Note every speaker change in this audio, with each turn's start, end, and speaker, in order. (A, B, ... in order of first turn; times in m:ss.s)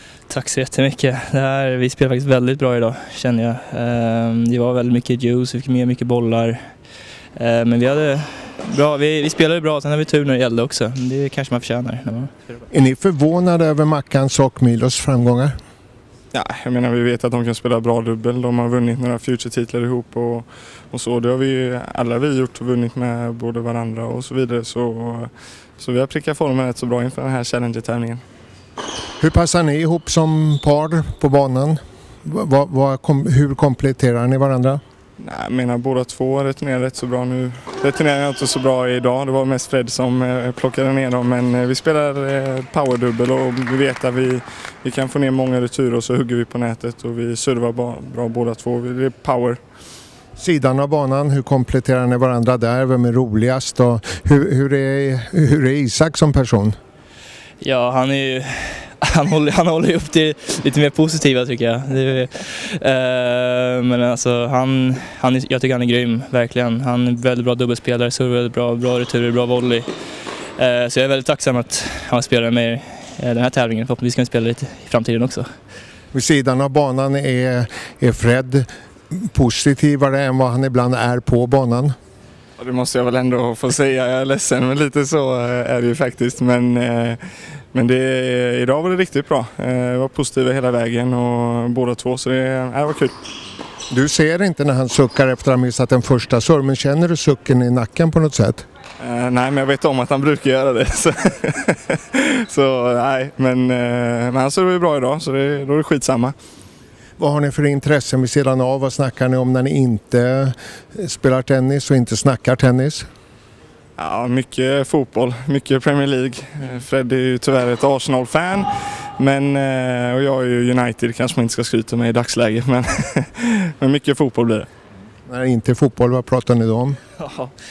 0:00.3-0:06.6 A
0:07.4-0:12.3 A
0:12.7-0:15.5 B
0:16.3-0:28.2 C
0:29.2-0:34.8 B
0:35.2-0:49.6 C
0:50.4-0:56.8 B
0:57.6-1:09.9 A
1:10.6-1:15.5 A
1:16.1-1:22.0 B
1:22.6-1:33.1 C
1:33.9-1:38.6 B
1:39.0-1:46.3 C
1:47.2-1:53.1 B
1:54.0-2:04.7 C
2:05.3-2:07.0 B
2:07.2-2:07.5 A